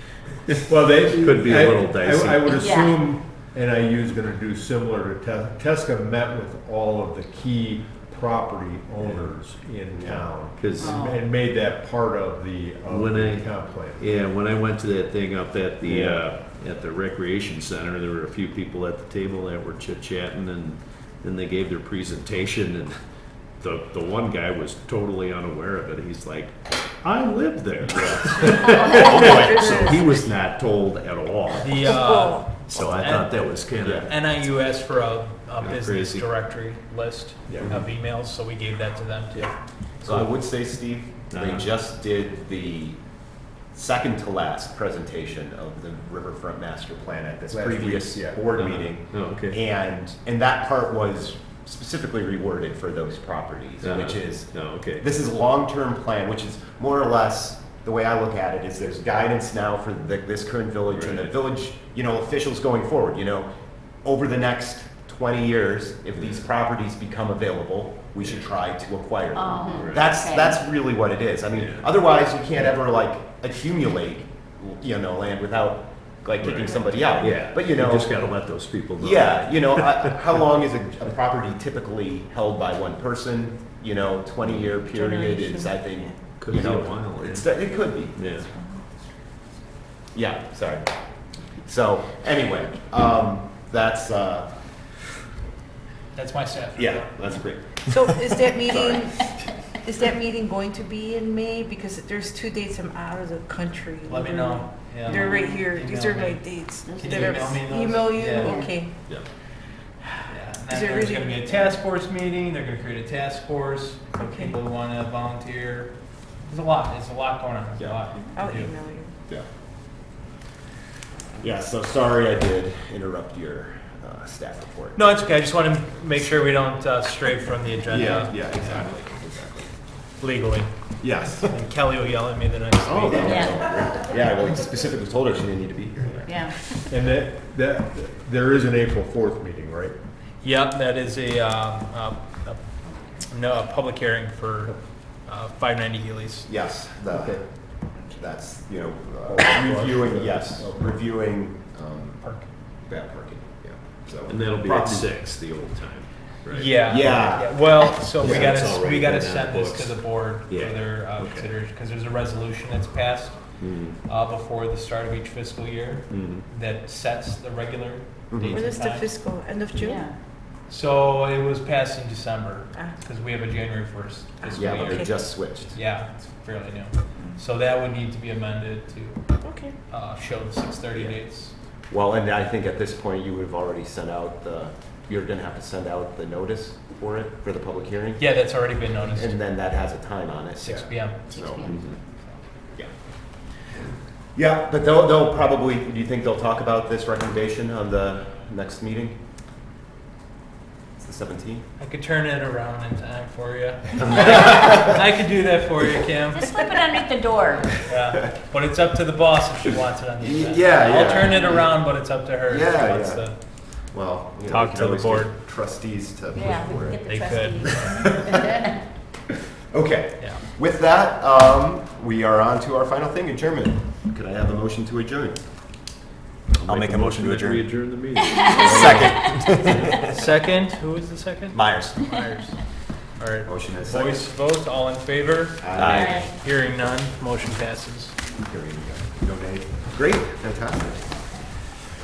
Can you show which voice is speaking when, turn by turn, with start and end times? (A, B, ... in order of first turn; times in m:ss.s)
0:00.6-0:14.0 A
0:01.2-0:02.6 B
0:02.6-0:02.9 C
0:10.0-0:10.2 D
0:10.5-0:11.0 B
0:12.8-0:23.0 B
0:15.8-0:16.2 A
0:23.6-0:31.9 B
0:28.0-0:28.8 D
0:28.5-0:30.0 E
0:31.6-0:39.6 F
0:32.0-0:32.4 E
0:32.7-0:34.1 B
0:33.8-0:34.1 D
0:35.6-0:36.3 B
0:37.5-0:37.8 A
0:40.0-1:03.5 D
0:40.0-0:40.3 B
0:41.3-0:41.7 B
0:47.5-0:48.4 A
0:48.5-0:49.6 B
0:53.8-0:55.0 B
1:00.9-1:01.3 B
1:04.0-1:18.1 D
1:09.3-1:10.5 C
1:09.7-1:10.1 B
1:11.5-1:11.8 B
1:16.4-1:20.1 B
1:19.0-1:28.3 D
1:25.0-1:26.1 E
1:26.4-1:27.5 B
1:28.1-1:28.5 B
1:30.1-1:30.9 D
1:31.6-1:34.5 D
1:36.1-1:37.1 F
1:36.8-1:38.0 D
1:37.9-1:39.2 E
1:38.5-1:39.2 D
1:39.8-1:48.9 E
1:44.1-1:48.8 F
1:46.9-1:47.5 C
1:50.3-1:58.7 F
1:50.7-1:51.4 E
1:57.8-1:58.0 D
1:58.4-1:59.1 E
2:01.4-2:05.1 D
2:05.0-2:08.8 F
2:07.9-2:09.7 D
2:10.2-2:13.8 F
2:11.0-2:11.6 D
2:12.8-2:16.4 D
2:16.2-2:16.5 C
2:16.9-2:19.9 A
2:20.4-2:26.5 F
2:26.5-2:35.1 D
2:27.1-2:27.4 A
2:29.3-2:31.0 A
2:32.2-2:32.5 F
2:34.3-2:36.7 B
2:36.5-2:49.3 F
2:36.8-2:38.5 D
2:38.2-2:41.5 B
2:43.6-2:44.0 B
2:46.1-2:46.4 B
2:48.3-2:48.6 D
2:48.5-2:50.1 E
2:49.9-2:50.1 C
2:50.7-3:01.5 F
2:54.5-2:55.8 D
2:59.4-2:59.7 E
3:00.9-3:01.2 D
3:01.9-3:08.3 D
3:08.2-3:09.4 F
3:09.1-3:11.7 D
3:10.6-3:11.3 F
3:11.3-3:11.7 C
3:11.7-3:11.9 B
3:11.9-3:12.4 F
3:14.3-3:19.2 D
3:21.0-3:21.6 D
3:21.8-3:26.8 F
3:26.3-3:27.7 C
3:27.8-3:33.9 F
3:30.2-3:37.0 D
3:34.5-3:35.3 F
3:36.3-3:38.6 C
3:37.0-3:38.4 F
3:37.7-3:38.4 D
3:39.7-3:45.4 D
3:40.2-3:40.4 F
3:46.5-3:49.9 B
3:46.6-3:47.9 D
3:48.5-3:50.1 D
3:50.0-3:58.1 F
3:51.5-3:52.1 D
3:53.4-3:54.3 D
3:55.6-3:56.3 D
3:56.0-3:56.3 C
3:58.4-4:01.1 D